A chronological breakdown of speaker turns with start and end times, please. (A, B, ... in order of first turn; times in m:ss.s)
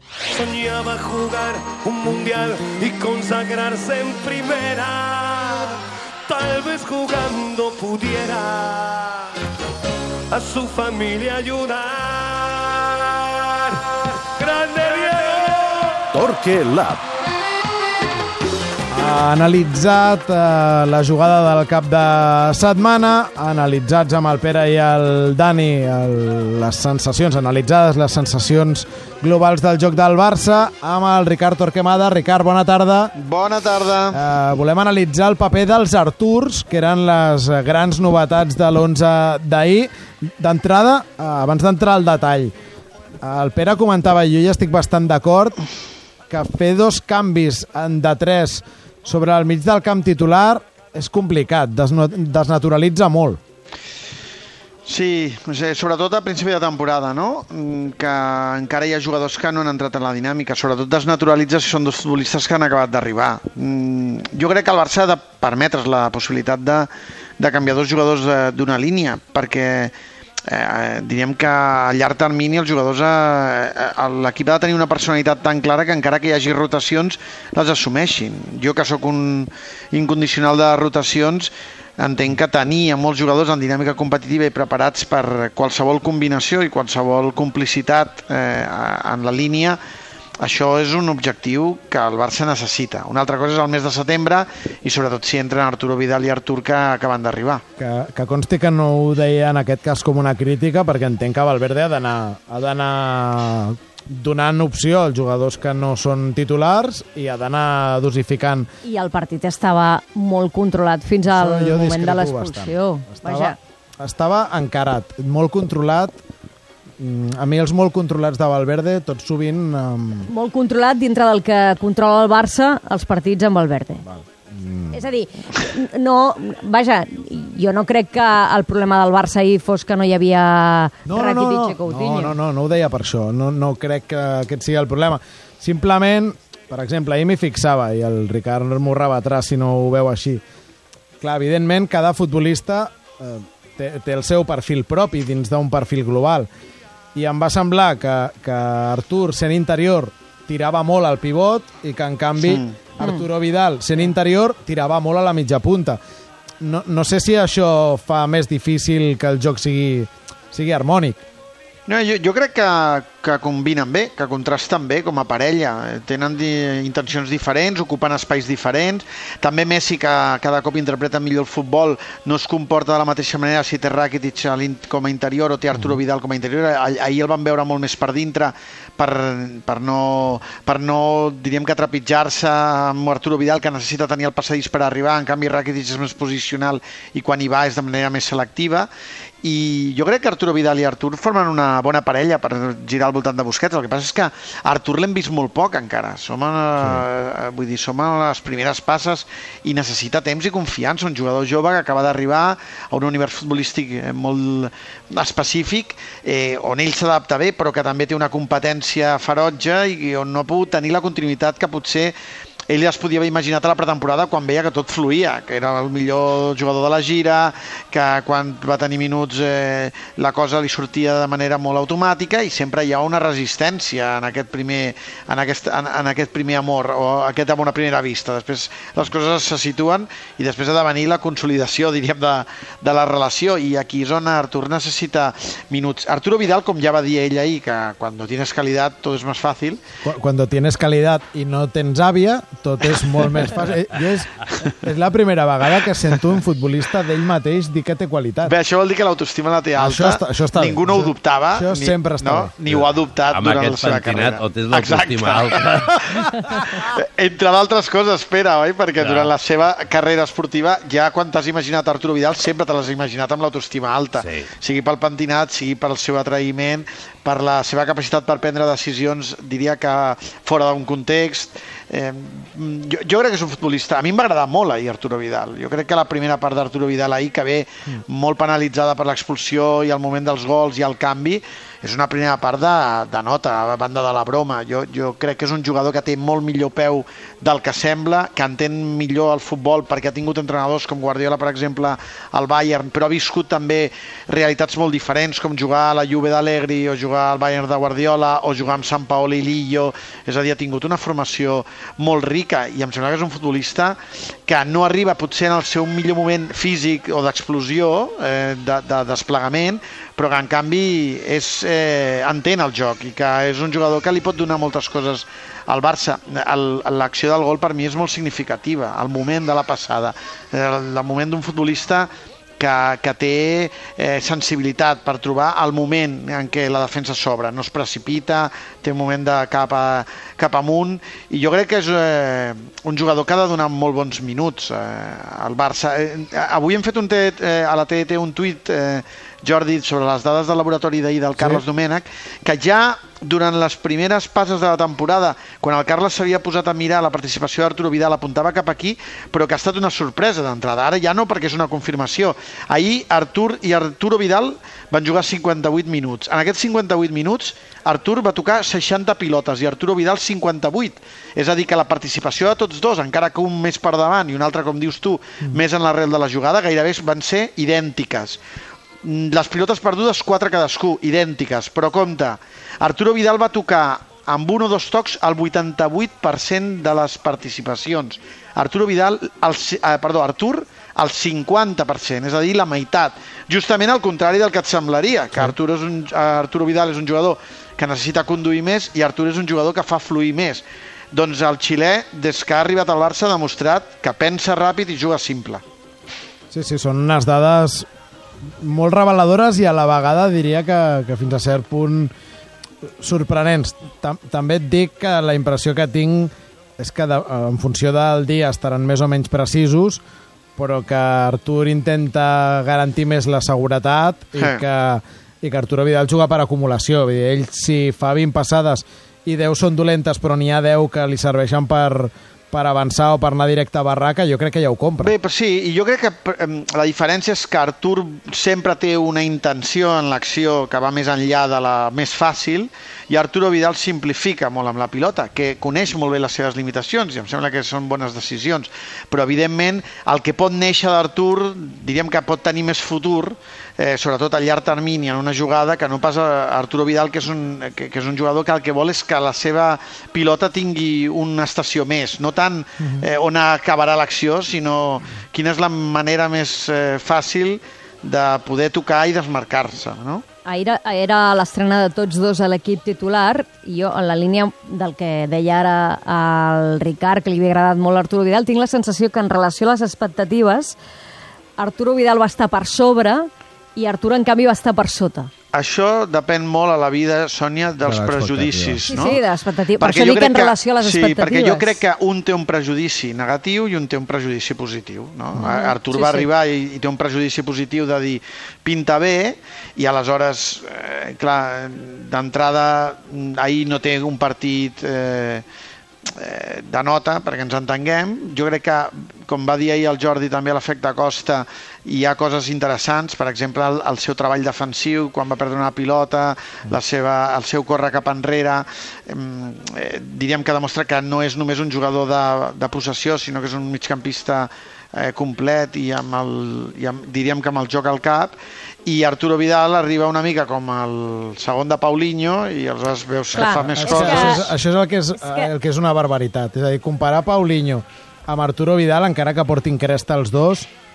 0:00.3-0:09.3 A
0:10.3-0:16.0 A
0:16.1-0:17.0 B
0:18.9-0:33.1 C
0:33.2-0:34.2 D
0:34.1-0:42.5 C
0:43.2-0:45.6 C
0:46.3-0:53.4 C
0:54.9-1:09.9 D
1:10.5-1:29.8 D
1:30.4-1:37.6 D
1:37.8-1:48.7 C
1:48.8-1:53.6 E
1:51.3-1:56.2 C
1:57.0-2:00.3 C
2:00.3-2:04.0 E
2:04.1-2:05.0 C
2:04.9-2:12.4 E
2:11.1-2:20.4 C
2:21.2-2:26.5 C
2:27.2-2:36.0 C
2:32.4-2:32.8 D
2:36.6-2:41.2 C
2:41.9-3:08.9 D
3:09.4-3:32.2 D
3:32.7-3:59.8 D
4:00.0-4:08.5 C
4:08.4-6:08.4 D
4:09.8-4:12.5 C
4:12.7-4:16.6 B
4:19.0-4:19.3 B
4:24.2-4:24.5 B
6:09.0-6:35.6 D
6:36.5-6:37.9 C
6:38.6-6:42.1 C
6:43.0-6:50.0 C
6:50.6-7:05.1 C
6:54.4-6:54.6 D
7:05.0-7:40.2 D
7:40.5-7:50.8 E
7:51.6-7:55.3 E
7:55.5-7:59.2 D
7:57.8-7:58.9 C
7:58.8-8:01.8 E
7:59.8-8:15.4 D
8:05.4-8:06.3 E
8:16.1-8:44.5 D
8:43.3-8:44.5 E
8:43.4-8:50.7 C
8:45.2-8:45.5 E